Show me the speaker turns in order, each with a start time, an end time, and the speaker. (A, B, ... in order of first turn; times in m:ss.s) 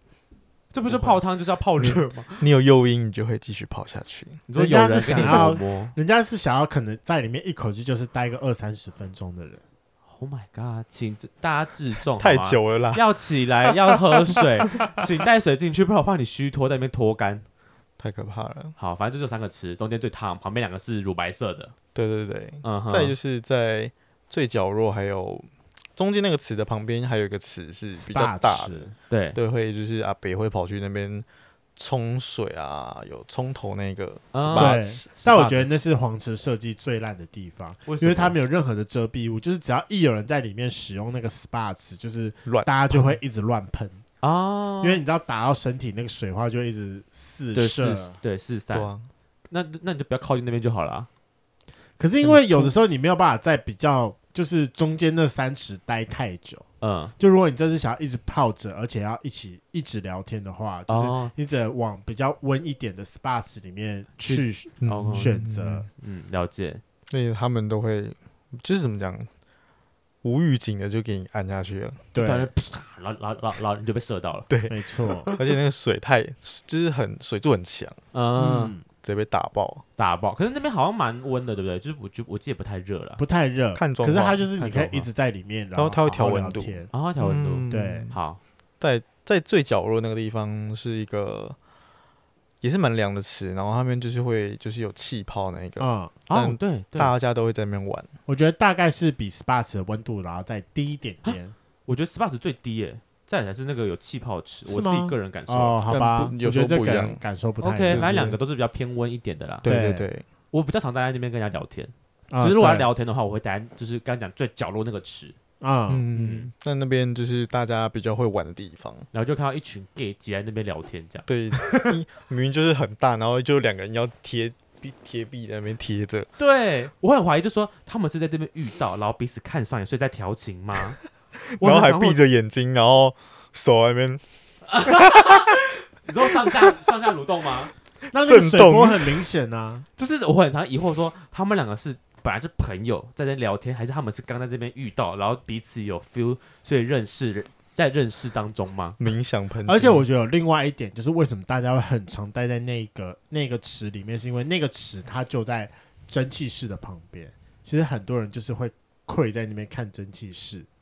0:00.7-0:02.4 A
0:00.9-0:01.2 B
0:01.8-0:05.6 B
0:04.5-0:05.9 A
0:04.6-0:09.6 C
0:10.1-0:17.4 A
0:12.2-0:13.0 B
0:13.6-0:14.9 B
0:18.0-0:18.7 B
0:18.8-0:21.7 A
0:21.9-0:35.0 B
0:22.6-0:23.1 A
0:27.9-0:28.9 C
0:29.1-0:29.4 A
0:34.3-0:35.7 A
0:34.6-0:44.0 C
0:37.8-0:38.3 A
0:42.4-0:43.2 B
0:44.2-0:45.0 A
0:44.8-0:48.2 C
0:47.5-0:48.9 A
0:48.7-0:49.1 B
0:49.5-0:51.1 A
0:52.0-0:56.6 C
0:52.2-0:52.7 B
0:56.8-0:57.1 A
0:57.2-1:05.9 C
1:00.9-1:01.3 A
1:04.2-1:05.9 B
1:04.8-1:05.3 A
1:06.0-1:06.8 A
1:07.1-1:09.3 B
1:10.2-1:12.0 B
1:12.1-1:12.5 C
1:12.2-1:14.5 A
1:14.5-1:18.0 B
1:14.7-1:15.3 C
1:18.1-1:18.7 A
1:18.4-1:18.8 C
1:19.0-1:19.8 B
1:20.0-1:23.2 A
1:23.2-1:26.9 C
1:23.7-1:24.5 B
1:24.6-1:25.0 A
1:25.7-1:28.1 B
1:26.9-1:28.4 A
1:27.7-1:28.1 C
1:28.8-1:31.6 B
1:32.6-1:38.1 B
1:35.8-1:36.2 C
1:36.3-1:37.1 A
1:38.3-1:41.5 C
1:41.2-1:45.8 A
1:44.6-1:48.1 C
1:45.9-1:47.2 B
1:47.6-1:49.6 A
1:47.9-1:48.4 B
1:49.6-1:50.2 B
1:49.6-1:50.1 C
1:50.5-1:55.4 A
1:52.3-1:52.9 C
1:55.6-1:56.1 C
1:55.9-1:59.1 B
1:56.1-1:56.5 A
1:59.1-2:01.2 A
2:01.2-2:06.3 B
2:06.4-2:11.0 A
2:11.4-2:14.2 B
2:11.6-2:12.2 A
2:14.7-2:17.7 A
2:14.8-2:15.5 B
2:18.0-2:19.2 B
2:18.1-2:19.8 C
2:20.0-2:29.0 A
2:29.0-2:30.0 B
2:29.7-2:40.6 C